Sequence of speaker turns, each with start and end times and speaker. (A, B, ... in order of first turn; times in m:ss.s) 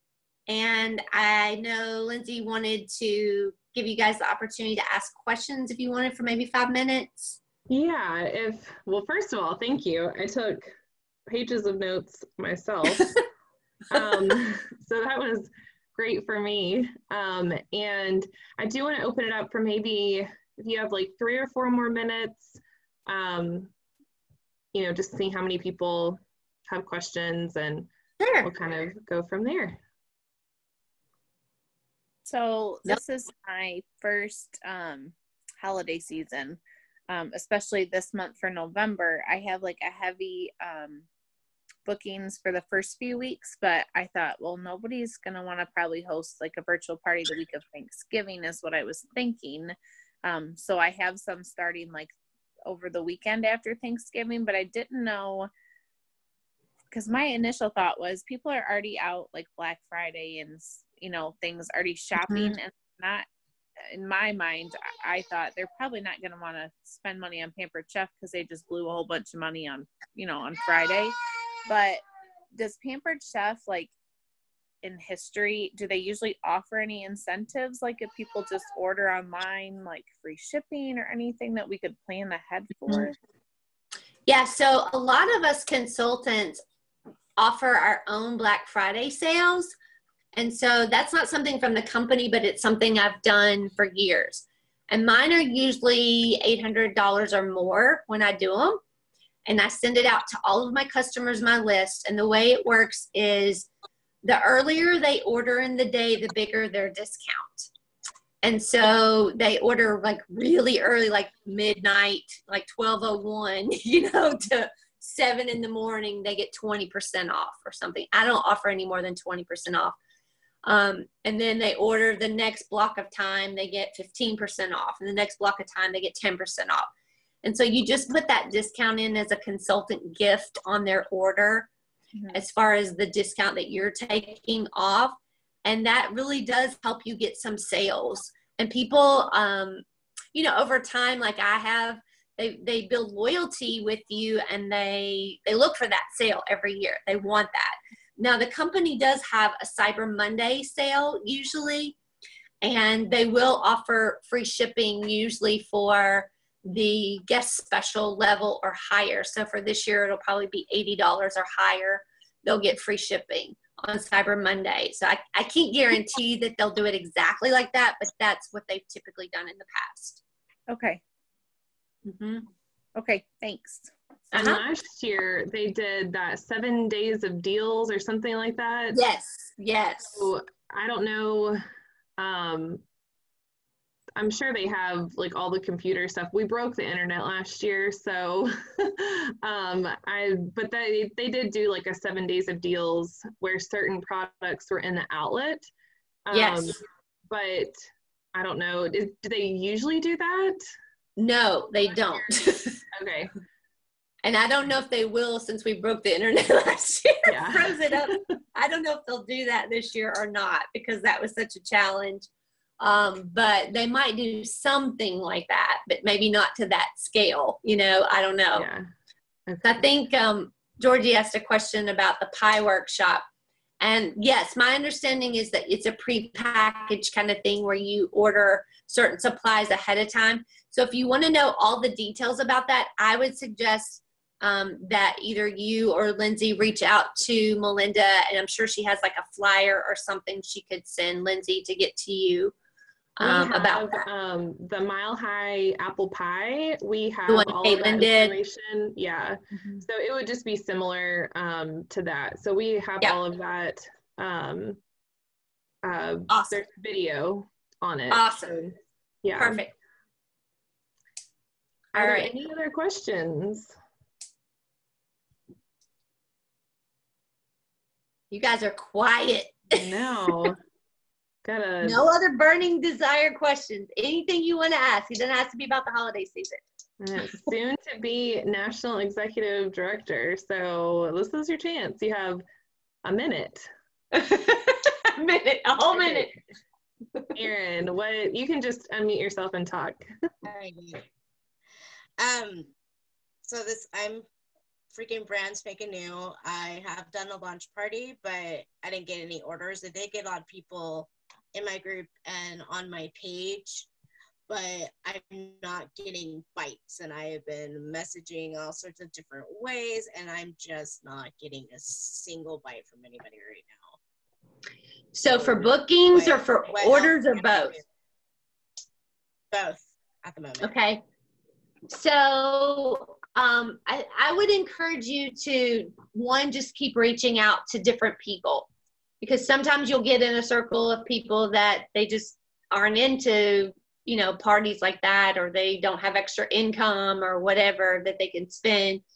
0:00.5-0:07.4 A
0:07.7-0:10.7 B
0:11.3-0:13.1 B
0:13.9-0:23.7 B
0:13.9-0:14.4 A
0:24.7-0:27.9 B
0:28.2-0:28.5 A
0:28.4-0:29.8 B
0:32.2-0:41.0 C
0:41.8-0:52.1 C
0:52.6-0:55.5 C
0:56.9-1:03.2 C
1:02.2-1:02.5 A
1:03.9-1:12.0 C
1:12.5-1:13.9 C
1:14.8-1:23.2 C
1:24.3-1:26.6 A
1:27.4-1:29.7 A
1:30.3-1:38.8 A
1:39.4-1:43.7 A
1:44.2-1:47.7 A
1:48.4-2:00.0 A
2:00.6-2:06.9 A
2:07.4-2:11.7 A
2:12.3-2:32.0 A
2:32.6-2:50.2 A
2:50.7-2:51.0 C
2:52.0-2:52.5 A
2:52.9-2:53.9 C
2:54.3-2:54.6 A
2:54.3-2:59.0 B
2:58.9-3:00.3 A
3:00.1-3:01.6 B
3:02.2-3:02.8 B
3:04.2-3:15.7 B
3:16.2-3:20.6 B
3:16.3-3:16.8 A
3:21.2-3:22.8 A
3:22.9-3:23.3 B
3:24.2-3:32.3 A
3:27.3-3:28.2 B
3:32.8-3:38.7 A
3:38.5-3:38.9 B
3:39.5-3:39.8 B
3:39.6-3:43.2 A
3:43.8-4:02.5 A
4:03.2-4:04.0 A
4:03.2-4:14.8 B
4:07.3-4:08.3 A
4:15.8-4:19.6 B
4:16.3-4:16.6 A
4:18.1-4:18.5 A
4:19.4-4:19.7 A
4:21.9-4:22.3 A
4:21.9-4:23.7 B
4:28.3-4:29.8 A
4:29.7-4:30.6 B
4:31.4-4:32.0 B
4:31.8-4:36.6 A
4:37.0-4:42.4 B
4:43.0-4:43.7 B
4:44.1-4:46.3 A
4:47.3-4:50.0 B
4:50.4-4:51.0 D
4:52.2-4:52.7 D
4:53.4-4:54.2 D
4:54.9-5:03.9 D
5:04.5-5:14.0 D
5:15.1-5:17.8 A
5:15.3-5:17.8 D
5:19.5-5:20.7 D
5:20.6-5:21.0 A
5:21.9-5:28.7 A
5:29.2-5:39.0 A